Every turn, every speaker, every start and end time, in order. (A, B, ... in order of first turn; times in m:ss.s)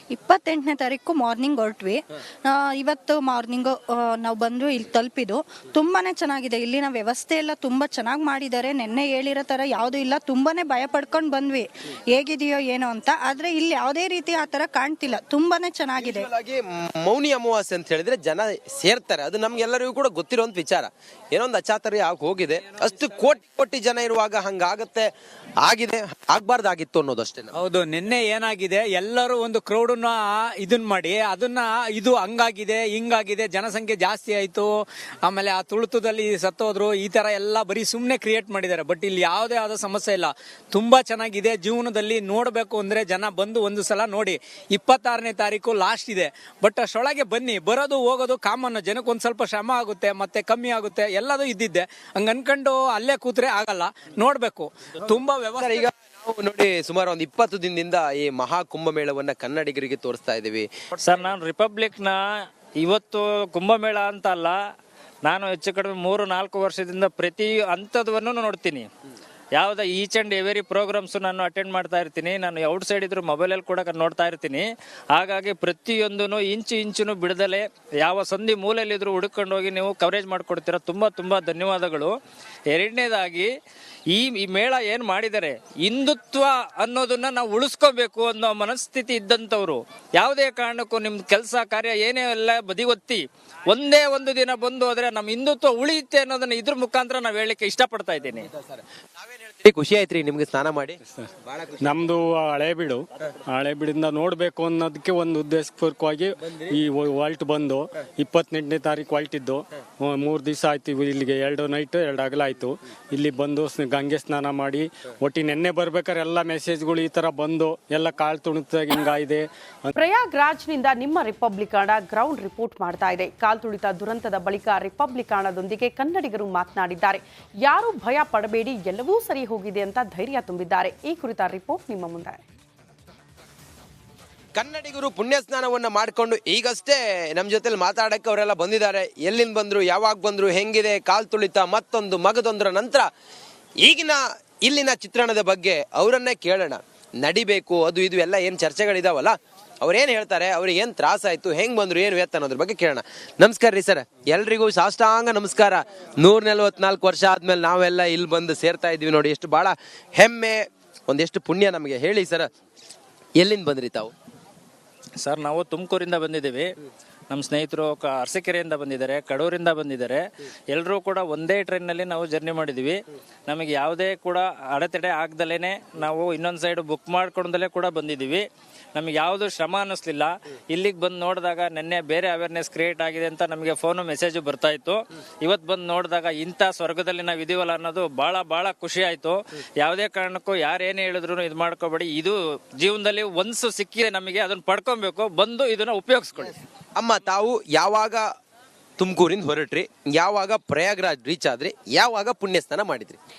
0:00.1-0:16.1 A
0:16.0-0:25.1 B
0:25.6-0:27.5 B
0:27.5-0:55.8 C
0:55.6-1:00.7 B
1:01.0-1:02.2 D
1:02.8-1:04.5 D
1:05.3-1:08.8 D
1:09.6-1:22.1 D
1:22.7-1:23.5 D
1:24.1-1:38.5 D
1:38.6-1:41.0 B
1:41.1-2:00.0 E
2:00.0-2:12.4 F
2:14.5-2:23.1 B
2:23.8-2:42.5 B
2:43.4-2:44.1 B
2:45.2-2:46.7 D
2:47.3-2:58.4 D
2:58.9-3:16.6 D
3:17.0-3:18.2 B
3:19.0-3:23.2 B